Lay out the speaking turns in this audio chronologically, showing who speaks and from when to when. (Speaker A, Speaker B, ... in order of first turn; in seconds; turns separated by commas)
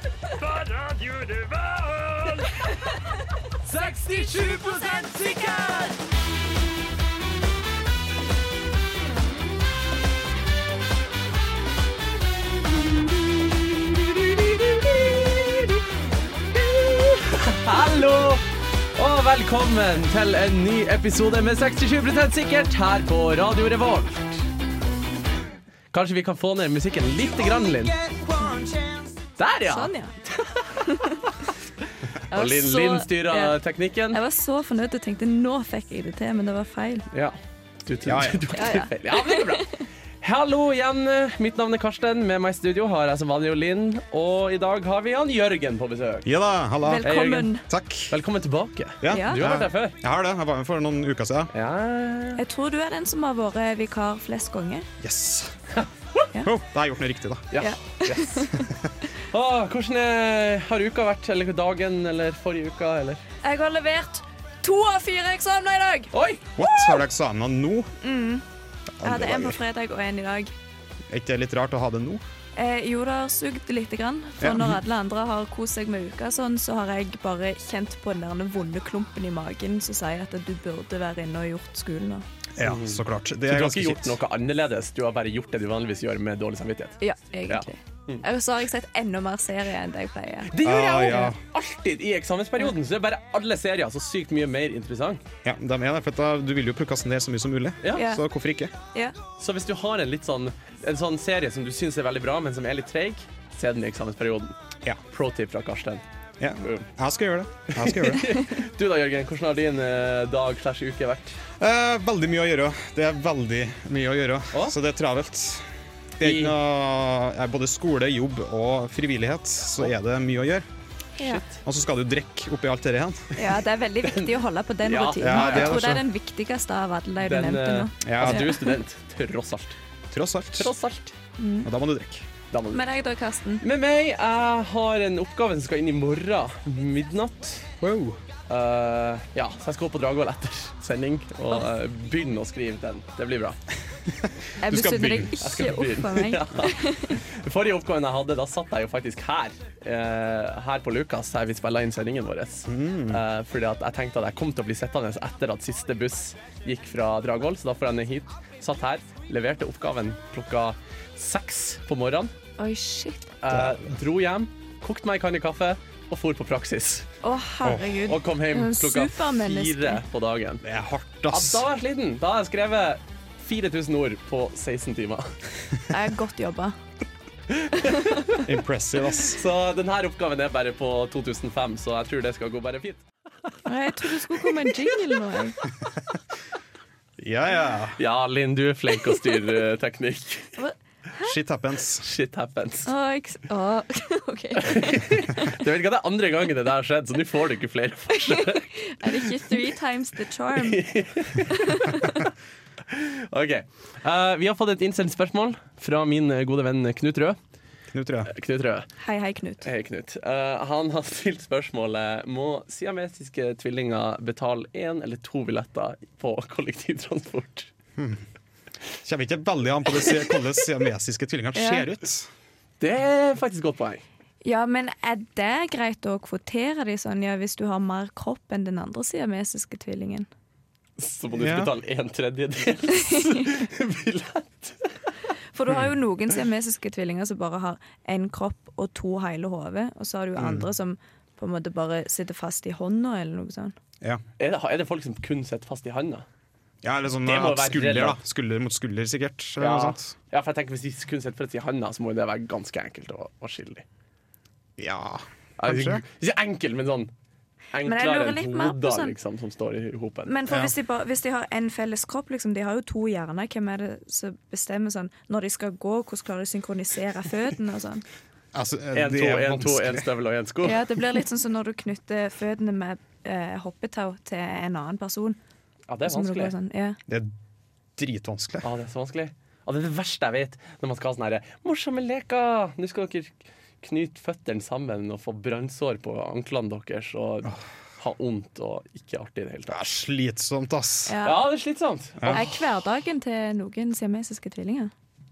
Speaker A: 0.5-2.5, Speaker B: 2.4-3.2, Speaker A: 3.6-5.9, Speaker B: 4.1-5.8, Speaker A: 13.8-15.8, Speaker A: 16.5-24.4, Speaker A: 25.9-28.1, Speaker A: 29.4-30.9, Speaker B: 29.7-30.2, Speaker B: 30.8-31.3, Speaker B: 32.3-37.1, Speaker A: 32.3-34.2, Speaker A: 37.1-39.7, Speaker C: 38.1-38.5, Speaker B: 38.6-39.9, Speaker A: 40.2-46.3, Speaker C: 46.2-48.2, Speaker B: 46.8-47.6, Speaker A: 47.0-47.5, Speaker A: 48.1-50.0, Speaker C: 49.0-51.5, Speaker B: 49.1-49.5, Speaker A: 51.5-52.4, Speaker B: 52.4-54.9, Speaker C: 55.0-55.5, Speaker C: 56.4-57.5, Speaker A: 57.5-58.5, Speaker B: 57.6-58.7, Speaker C: 58.6-58.9, Speaker A: 59.3-63.2, Speaker B: 63.4-67.0, Speaker A: 66.1-66.5, Speaker C: 66.6-67.9, Speaker B: 68.0-68.4, Speaker C: 69.0-69.6, Speaker B: 69.0-70.5, Speaker C: 71.1-72.2, Speaker B: 72.6-82.3, Speaker C: 74.4-74.8, Speaker C: 82.6-84.2, Speaker A: 82.6-87.0, Speaker B: 87.0-91.3, Speaker A: 87.5-88.2, Speaker A: 90.5-95.2, Speaker C: 90.6-91.4, Speaker C: 95.5-98.7, Speaker A: 97.8-98.1, Speaker B: 97.9-98.2, Speaker A: 99.4-104.5, Speaker A: 105.1-106.0, Speaker C: 106.4-108.4, Speaker A: 107.7-111.4, Speaker C: 111.6-115.7, Speaker C: 116.2-120.7, Speaker A: 116.2-116.6, Speaker A: 121.2-121.6, Speaker C: 121.6-123.3, Speaker B: 123.3-128.8, Speaker A: 124.8-125.8, Speaker C: 125.2-126.0, Speaker A: 127.2-129.8, Speaker C: 128.0-128.5, Speaker C: 130.1-130.7, Speaker A: 130.6-131.2, Speaker B: 131.4-131.7, Speaker C: 131.6-132.3, Speaker A: 132.5-132.8, Speaker B: 132.7-133.6, Speaker A: 133.6-137.7, Speaker C: 137.8-138.2, Speaker A: 138.5-143.6, Speaker B: 144.6-147.2, Speaker C: 144.7-145.3, Speaker A: 145.2-162.3, Speaker C: 152.7-153.2, Speaker B: 162.6-163.3, Speaker A: 163.4-167.1, Speaker C: 163.5-163.9, Speaker B: 167.2-170.0, Speaker C: 167.6-168.0, Speaker A: 168.1-170.7, Speaker C: 170.6-171.6, Speaker A: 171.3-175.4, Speaker B: 175.9-176.8, Speaker A: 177.5-178.4, Speaker B: 177.8-178.2, Speaker C: 178.4-179.4, Speaker A: 179.3-183.0, Speaker B: 183.7-185.6, Speaker C: 187.2-188.0, Speaker A: 188.0-190.6, Speaker B: 189.1-189.4, Speaker B: 190.6-191.3, Speaker C: 191.2-192.1, Speaker A: 192.0-192.9, Speaker B: 192.8-195.5, Speaker A: 194.6-199.5, Speaker B: 198.1-200.8, Speaker A: 200.6-202.1, Speaker B: 201.4-202.2, Speaker A: 202.9-207.4, Speaker C: 207.9-208.3, Speaker A: 208.3-208.9, Speaker B: 209.0-209.7, Speaker A: 209.6-217.7, Speaker C: 218.0-218.2, Speaker C: 219.0-222.3, Speaker B: 221.6-221.8, Speaker A: 222.8-224.0, Speaker B: 224.4-230.3, Speaker A: 231.0-234.9, Speaker C: 231.4-231.7, Speaker B: 235.5-243.8, Speaker C: 240.4-240.7, Speaker A: 244.4-246.2, Speaker C: 246.8-250.1, Speaker A: 247.3-248.2, Speaker A: 249.6-253.8, Speaker C: 254.8-256.0, Speaker A: 255.6-257.1, Speaker A: 257.7-260.3, Speaker B: 257.8-259.1, Speaker B: 260.3-268.1, Speaker C: 268.5-270.1, Speaker A: 268.9-270.8, Speaker B: 270.6-275.4, Speaker A: 275.9-276.5, Speaker B: 276.1-277.0, Speaker C: 277.1-277.3, Speaker C: 278.0-278.7, Speaker A: 278.6-289.9, Speaker C: 289.7-291.2, Speaker B: 291.1-291.4, Speaker A: 291.2-292.6, Speaker C: 292.2-292.5, Speaker B: 292.3-294.9